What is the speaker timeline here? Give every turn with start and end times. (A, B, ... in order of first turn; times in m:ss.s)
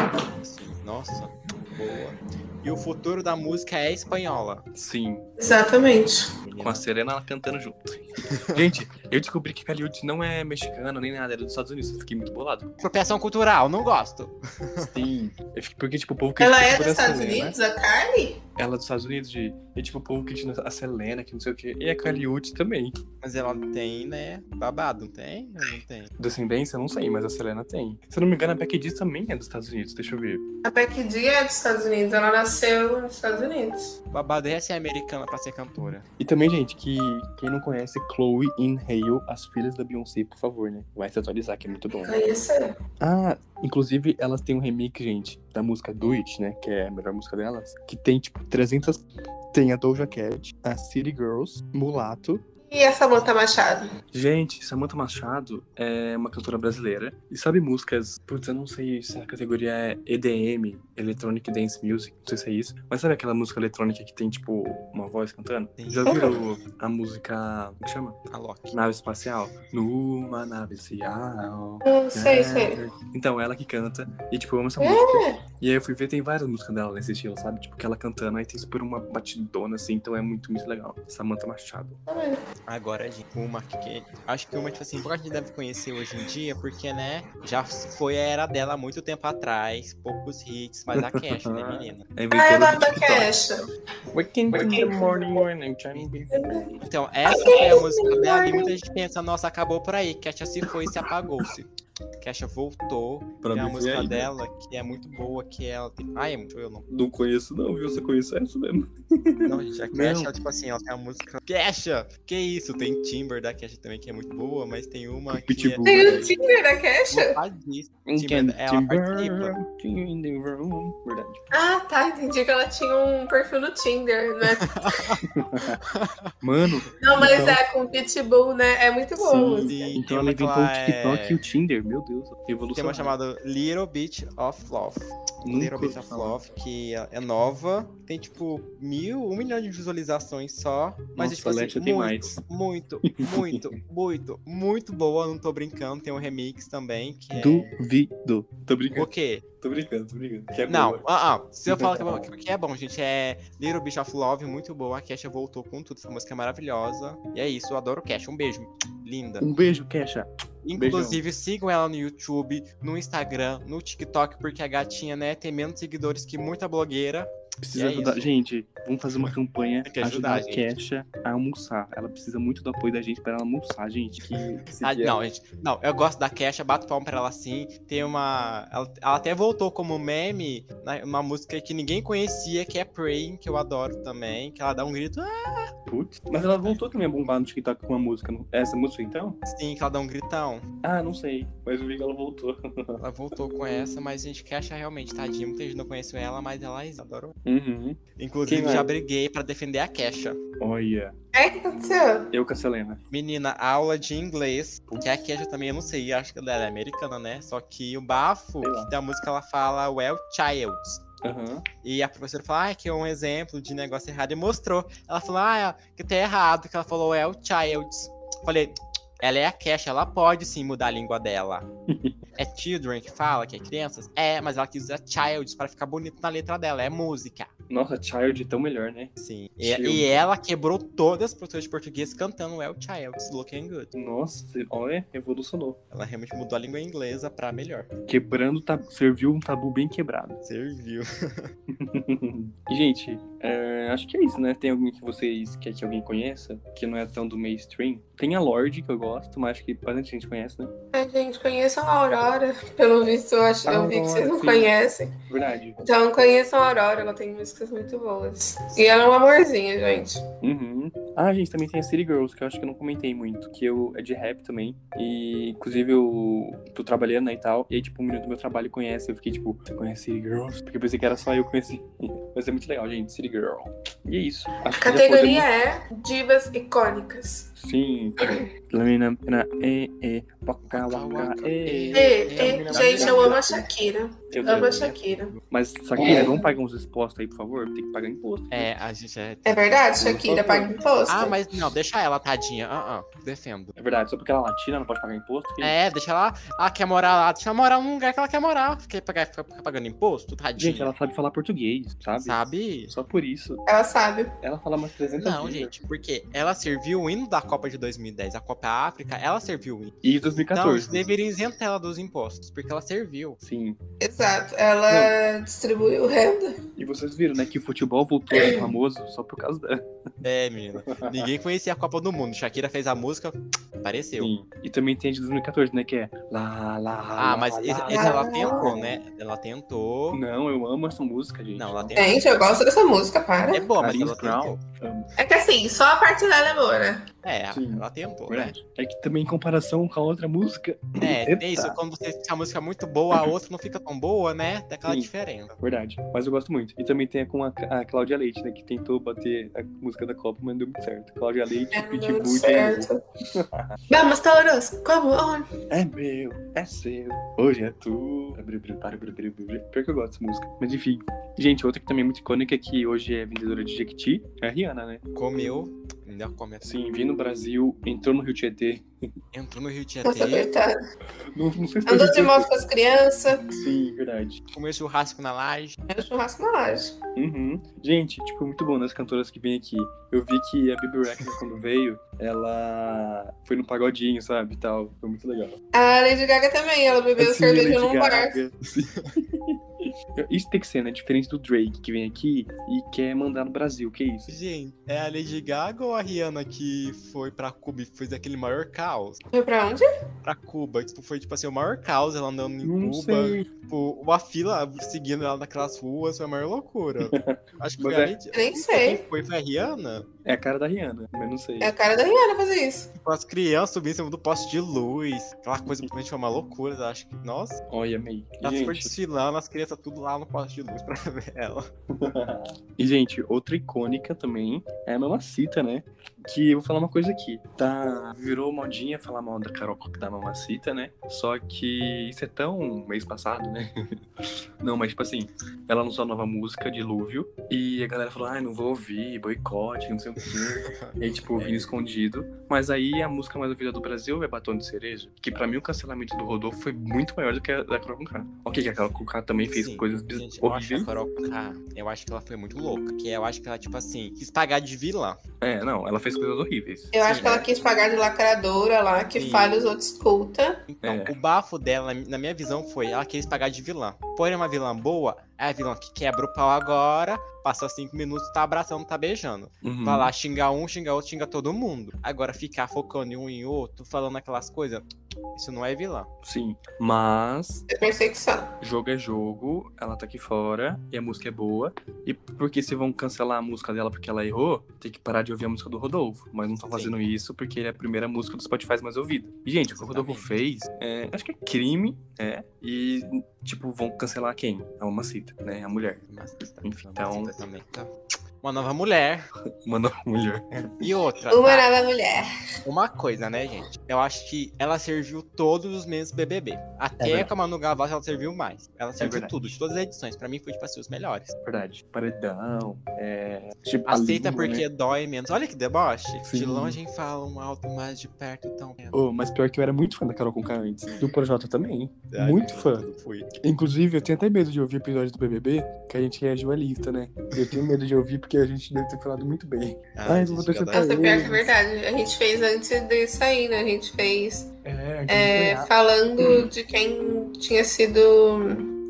0:00.4-0:04.6 A
0:04.7-0:05.2 B
0:05.4-0:06.3 C
0:06.4-0:06.8 A
0:06.6-0:12.7 B
0:08.3-0:08.6 A
0:12.8-0:14.9 A
0:14.8-0:17.6 B
0:16.4-0:18.4 C
0:18.6-0:23.0 B
0:23.2-0:26.1 A
0:26.2-0:30.4 B
0:30.6-0:33.9 C
0:34.1-0:36.0 A
0:36.2-0:42.2 B
0:41.9-0:42.8 C
0:43.0-0:52.4 B
0:52.7-0:53.9 C
0:54.1-1:08.2 B
1:05.8-1:06.3 A
1:06.1-1:06.4 C
1:08.3-1:08.8 A
1:08.7-1:22.0 B
1:11.8-1:12.8 C
1:14.8-1:15.4 C
1:22.1-1:22.4 C
1:22.7-1:32.0 A
1:30.9-1:33.3 B
1:32.3-1:33.6 C
1:34.1-1:36.8 B
1:34.5-1:35.3 C
1:36.3-1:36.7 C
1:36.8-1:41.7 A
1:37.3-1:38.7 C
1:42.2-1:46.8 A
1:43.4-1:44.3 B
1:46.9-1:50.3 B
1:49.4-1:56.3 A
1:55.3-1:56.3 B
1:55.8-1:57.4 C
1:57.1-1:59.6 A
1:58.0-2:01.4 B
2:01.5-2:04.8 C
2:04.6-2:05.2 A
2:05.3-2:05.8 B
2:05.9-2:06.3 A
2:06.4-2:07.6 B
2:07.0-2:09.8 C
2:07.2-2:07.5 A
2:09.2-2:13.1 B
2:09.6-2:11.4 A
2:12.7-2:27.8 A
2:15.4-2:16.4 B
2:21.2-2:22.4 B
2:23.0-2:23.6 B
2:27.4-2:31.1 B
2:28.9-2:29.4 A
2:30.7-2:39.4 A
2:31.7-2:32.3 B
2:39.4-2:41.2 B
2:40.6-2:48.3 A
2:47.6-2:55.2 B
2:49.8-2:50.7 A
2:54.7-3:05.7 A
3:05.9-3:09.4 B
3:09.4-3:10.6 A
3:10.8-3:13.0 B
3:13.0-3:17.3 A
3:17.4-3:18.9 B
3:18.2-3:20.4 A
3:20.6-3:21.2 B
3:21.3-3:22.3 C
3:22.3-3:23.0 B
3:23.1-3:31.0 A
3:28.6-3:28.9 B
3:31.2-3:31.6 B
3:31.8-3:41.6 A
3:41.9-3:42.2 B
3:42.4-3:47.5 A
3:47.7-3:50.1 B
3:49.2-3:53.9 A
3:53.9-3:55.8 B
3:55.9-3:57.9 A
3:58.1-4:00.4 B
4:00.4-4:01.5 A
4:01.7-4:10.7 B
4:10.9-4:15.1 C
4:13.6-4:14.7 B
4:15.3-4:15.8 B
4:15.8-4:20.2 C
4:20.4-4:35.5 B
4:34.8-4:37.5 C
4:37.6-4:43.7 B
4:40.7-4:43.4 A
4:41.9-4:45.3 C
4:44.3-4:45.0 B
4:45.5-4:48.7 B
4:46.0-4:46.4 C
4:48.5-4:49.8 A
4:49.4-4:51.4 C
4:50.0-4:51.3 B
4:51.1-4:53.7 A
4:53.8-4:55.7 B
4:55.6-5:00.9 A
5:00.6-5:03.6 B
5:02.2-5:02.9 A
5:03.7-5:04.3 C
5:04.4-5:05.7 B
5:05.2-5:09.9 A
5:10.0-5:11.0 B
5:10.5-5:13.4 A
5:13.4-5:13.8 B
5:14.0-5:16.6 C
5:14.9-5:15.1 B
5:16.8-5:19.8 B
5:18.3-5:18.6 C
5:20.2-5:24.3 A
5:20.9-5:21.2 B
5:24.2-5:28.9 B
5:27.2-5:30.2 A
5:27.9-5:28.7 C
5:30.1-5:32.0 B
5:31.5-5:32.3 A
5:32.0-5:33.7 C
5:33.5-5:34.6 A
5:33.8-5:35.1 B
5:35.2-5:37.0 C
5:37.2-5:38.5 A
5:37.5-5:41.8 B
5:41.0-5:45.5 A
5:44.9-5:53.8 B
5:51.7-5:53.0 C
5:53.9-5:55.5 C
5:55.7-6:05.0 B
6:05.1-6:06.7 A
6:06.6-6:08.8 B
6:09.3-6:10.5 A
6:10.0-6:10.7 C
6:11.3-6:12.5 B
6:11.9-6:13.4 C
6:13.6-6:14.4 B
6:14.5-6:15.8 A
6:15.9-6:16.9 C
6:17.2-6:25.6 B
6:25.7-6:28.4 C
6:27.2-6:34.3 B
6:34.3-6:39.2 A
6:39.3-6:39.9 C
6:40.2-6:50.1 A
6:42.6-6:43.5 B
6:47.0-6:48.1 B
6:48.3-6:49.0 C
6:50.2-6:51.7 B
6:51.6-6:52.9 C
6:53.0-6:57.6 A
6:57.7-6:58.9 B
6:58.4-7:01.7 A
7:01.9-7:13.7 B
7:14.6-7:30.9 B
7:20.6-7:21.7 A
7:29.5-7:35.2 A
7:35.4-7:36.9 B
7:36.9-7:40.6 C
7:37.0-7:37.5 A
7:39.1-7:39.7 A
7:40.7-7:56.1 A
7:40.8-7:41.2 B
7:49.6-7:50.1 B
7:56.2-7:57.6 B
7:57.7-7:58.5 C
7:58.6-8:16.0 B
8:06.7-8:07.0 A
8:09.6-8:10.4 A
8:16.1-8:17.9 A
8:16.6-8:17.3 B
8:18.4-8:19.3 A
8:19.6-8:20.8 B
8:20.8-8:21.7 A
8:21.3-8:22.3 C
8:22.6-8:31.3 A
8:27.0-8:27.3 B
8:29.0-8:29.6 B
8:31.4-8:34.6 B
8:33.8-8:39.0 A
8:36.2-8:36.8 B
8:38.9-8:42.9 B
8:42.1-8:43.3 A
8:43.4-8:51.5 B
8:49.9-8:50.9 A
8:50.7-8:54.5 C
8:54.6-8:55.7 B
8:55.1-8:58.7 C